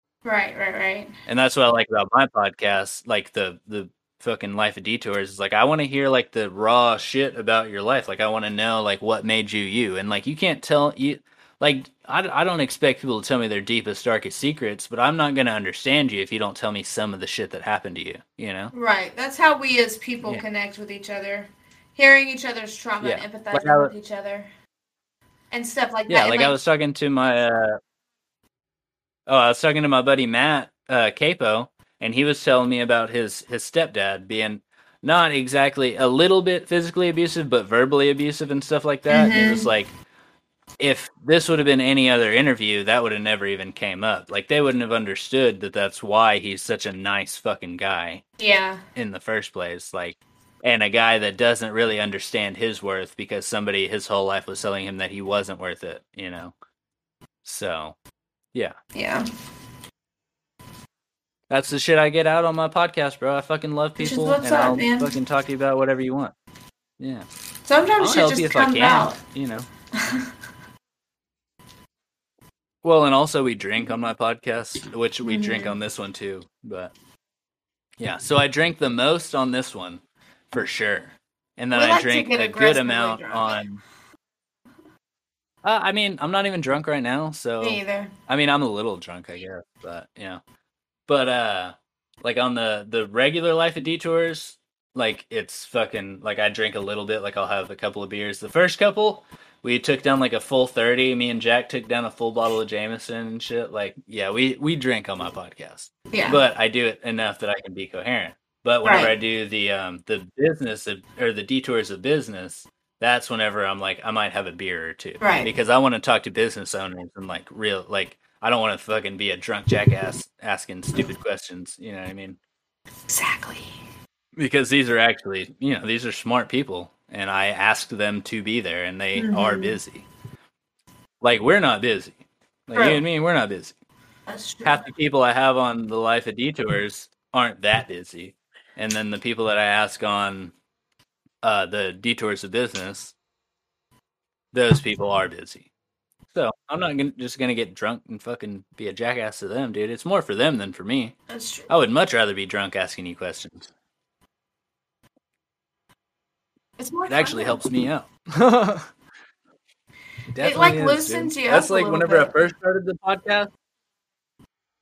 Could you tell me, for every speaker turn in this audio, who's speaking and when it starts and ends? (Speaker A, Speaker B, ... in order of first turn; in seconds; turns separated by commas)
Speaker A: 0.2-1.1, Speaker B: 1.3-18.7, Speaker A: 18.7-24.5, Speaker B: 23.0-23.9, Speaker A: 25.5-26.6, Speaker B: 26.1-27.8, Speaker B: 29.3-39.9, Speaker A: 39.1-39.7, Speaker B: 40.8-48.2, Speaker A: 48.4-48.8, Speaker B: 49.0-56.5, Speaker B: 57.4-58.0, Speaker A: 59.0-59.3, Speaker B: 61.5-66.3, Speaker A: 64.0-65.2, Speaker B: 67.0-67.3, Speaker A: 67.7-69.2, Speaker B: 68.0-69.7, Speaker A: 70.0-70.3, Speaker B: 72.8-76.9, Speaker A: 75.2-75.8, Speaker B: 78.0-83.8, Speaker A: 81.7-83.6, Speaker B: 85.6-90.4, Speaker A: 87.6-88.1, Speaker B: 91.1-122.4, Speaker A: 106.1-106.4, Speaker A: 108.8-109.1, Speaker A: 115.2-115.5, Speaker A: 123.1-123.7, Speaker B: 124.4-130.1, Speaker A: 129.2-129.8, Speaker B: 131.2-133.8, Speaker A: 132.8-133.0, Speaker A: 134.3-134.9, Speaker B: 134.6-140.5, Speaker B: 141.4-143.1, Speaker B: 144.5-145.7, Speaker B: 146.3-151.2, Speaker A: 151.3-151.7, Speaker B: 151.7-153.7, Speaker A: 156.8-157.7, Speaker B: 157.1-158.9, Speaker B: 160.3-163.5, Speaker A: 160.4-162.3